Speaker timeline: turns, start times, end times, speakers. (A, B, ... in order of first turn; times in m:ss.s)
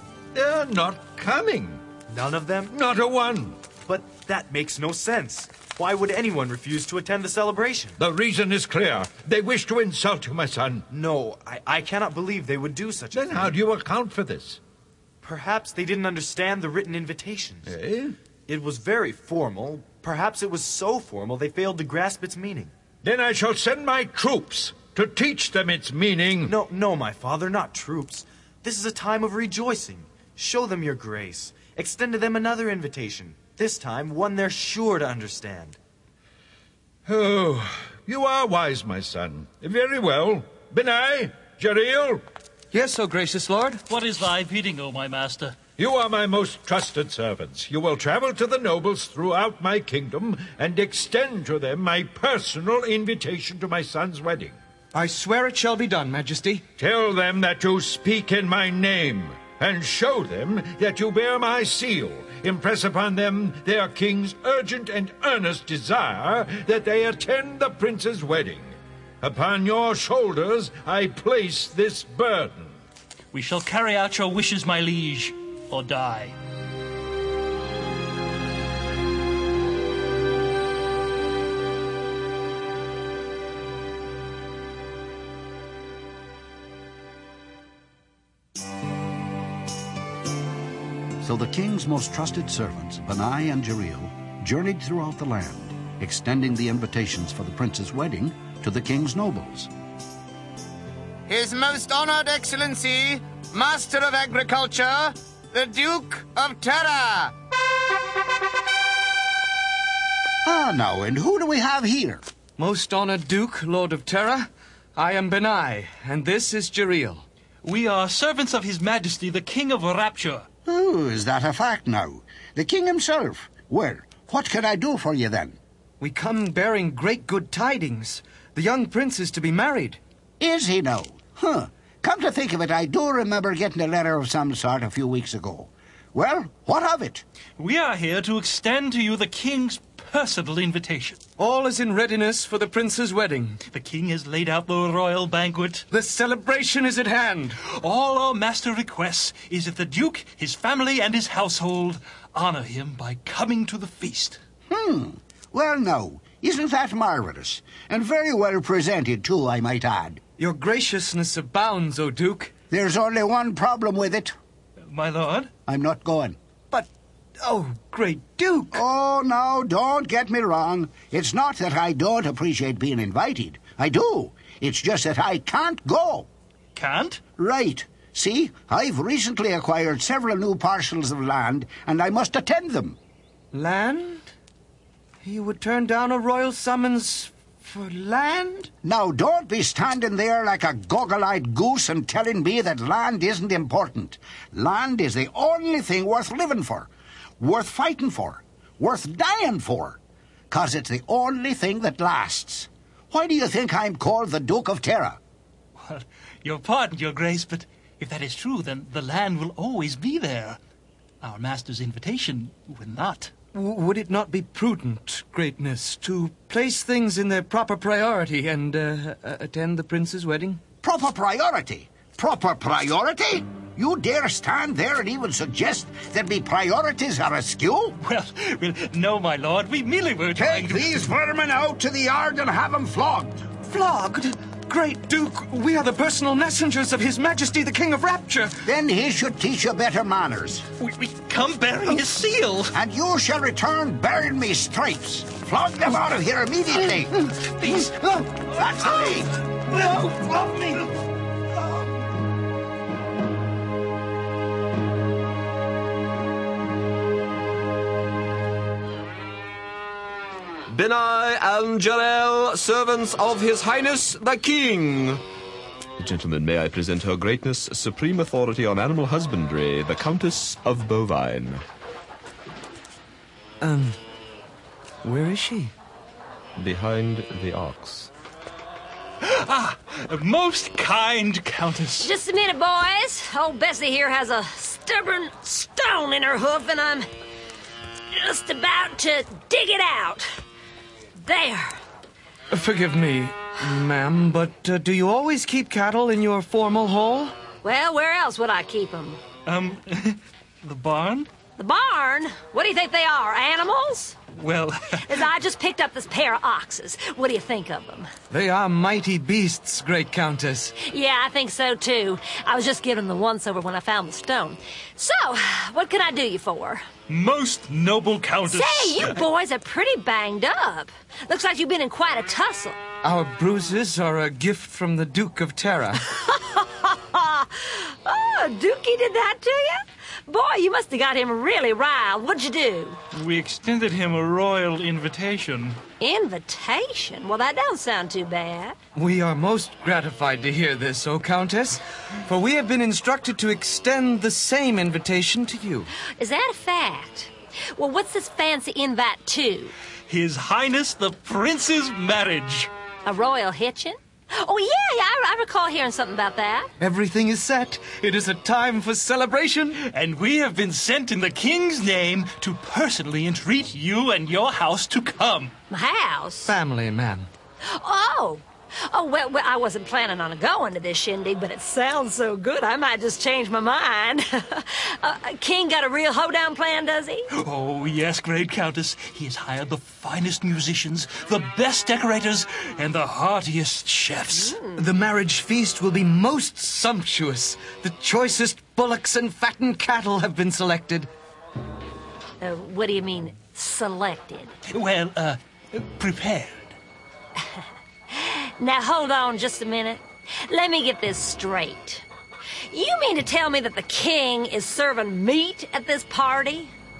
0:00.3-0:01.8 A
0:02.1-0:02.7 B
0:02.7-0:03.6 A
0:03.8-0:08.0 B
0:08.0-0:10.9 A
0:10.9-0:13.5 B
0:13.1-0:14.6 A
0:15.2-0:17.7 B
0:17.6-0:18.2 A
0:18.5-0:22.7 B
0:23.0-0:26.6 A
0:26.4-0:35.8 B
0:37.0-0:42.2 A
0:42.7-0:43.8 C
0:43.9-0:45.6 D
0:45.8-0:54.6 A
0:54.9-0:56.6 C
0:56.8-1:12.8 A
1:13.3-1:16.4 D
1:31.2-1:39.7 E
1:41.3-1:47.3 F
1:50.4-1:52.2 G
1:52.6-1:57.2 C
1:57.6-2:00.5 D
2:00.6-2:05.6 G
2:06.0-2:10.0 C
2:10.4-2:17.2 G
2:17.6-2:21.2 D
2:21.4-2:23.6 C
2:23.7-2:25.8 D
2:25.9-2:27.5 C
2:27.6-2:34.4 D
2:34.7-2:40.2 G
2:40.4-2:42.5 C
2:42.7-2:44.3 G
2:44.9-2:45.5 D
2:45.7-2:46.4 G
2:46.7-2:48.8 C
2:48.7-2:56.3 G
2:56.7-2:57.2 D
2:57.4-3:03.0 G
3:03.5-3:04.3 C
3:05.2-3:08.7 C
3:08.8-3:16.9 G
3:17.4-3:20.0 G
3:20.5-3:25.2 G
3:25.8-3:30.6 D
3:31.2-3:33.3 D
3:33.5-3:40.6 C
3:40.8-3:48.0 G
3:48.0-3:51.0 D
3:50.4-3:53.3 G
3:53.6-3:58.7 C
3:58.6-4:00.6 G
4:00.8-4:02.8 D
4:02.7-4:07.1 G
4:07.4-4:07.9 D
4:08.5-4:09.3 G
4:09.5-4:10.9 D
4:20.7-4:25.2 H
4:26.0-4:31.6 H
4:33.6-4:34.0 C
4:35.0-4:35.7 C
4:36.5-4:38.1 H
4:39.2-4:42.1 D
4:42.0-4:47.1 I
4:48.1-4:50.4 I
4:51.2-4:51.8 I
4:52.5-4:57.4 C
4:57.6-4:59.2 I
4:59.4-5:01.3 D
5:01.6-5:04.2 I
5:04.3-5:05.0 D
5:05.1-5:08.1 I
5:08.3-5:10.7 C
5:10.8-5:16.8 I
5:17.1-5:19.2 D
5:18.4-5:22.8 I
5:23.0-5:26.0 C
5:26.0-5:33.0 I
5:33.1-5:35.8 D
5:36.0-5:38.8 I
5:38.9-5:45.9 C
5:46.2-5:49.7 I
5:50.1-5:52.7 D
5:53.0-5:56.7 I
5:56.8-5:59.8 C
5:59.9-6:05.5 D
6:05.7-6:06.5 I
6:06.4-6:07.3 C
6:07.6-6:17.3 I
6:17.3-6:24.6 D
6:24.3-6:24.8 I
6:24.7-6:31.1 C
6:32.4-6:34.5 I
6:34.7-6:36.8 D
6:37.4-6:42.0 I
6:42.7-6:46.7 I